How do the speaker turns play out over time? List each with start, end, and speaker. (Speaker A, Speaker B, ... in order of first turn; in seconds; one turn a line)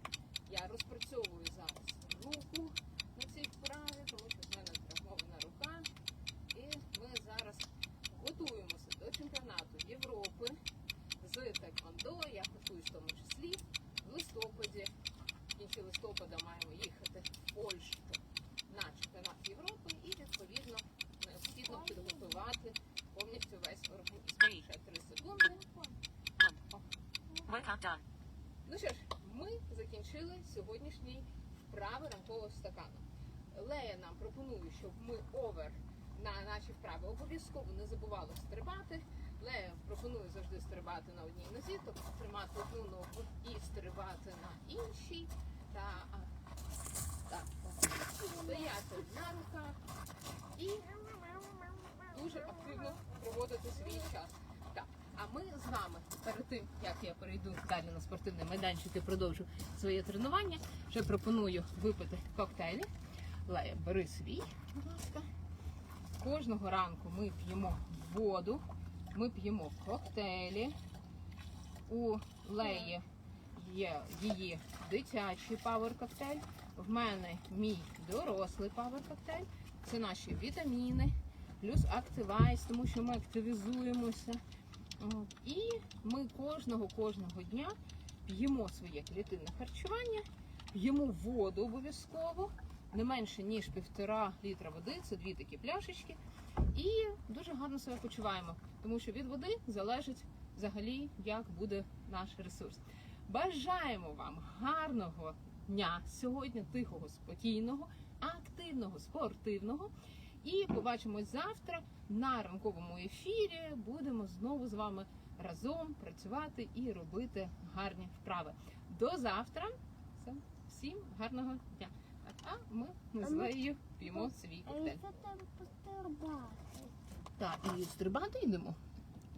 Speaker A: 0.5-5.9
Speaker A: 6.5-10.6
Speaker A: 11.2-14.9
Speaker A: 15.6-25.6
Speaker B: 21.6-22.4
Speaker B: 25.5-26.0
Speaker B: 27.3-28.0
Speaker A: 28.6-46.3
Speaker A: 47.3-49.8
Speaker B: 48.2-48.5
Speaker A: 50.5-51.2
Speaker A: 52.0-62.9
Speaker A: 63.5-65.3
Speaker A: 66.2-70.8
Speaker A: 71.9-84.4
Speaker A: 85.0-96.2
Speaker A: 96.7-125.0
Speaker B: 123.2-123.5
Speaker B: 124.7-126.9
Speaker A: 127.4-128.8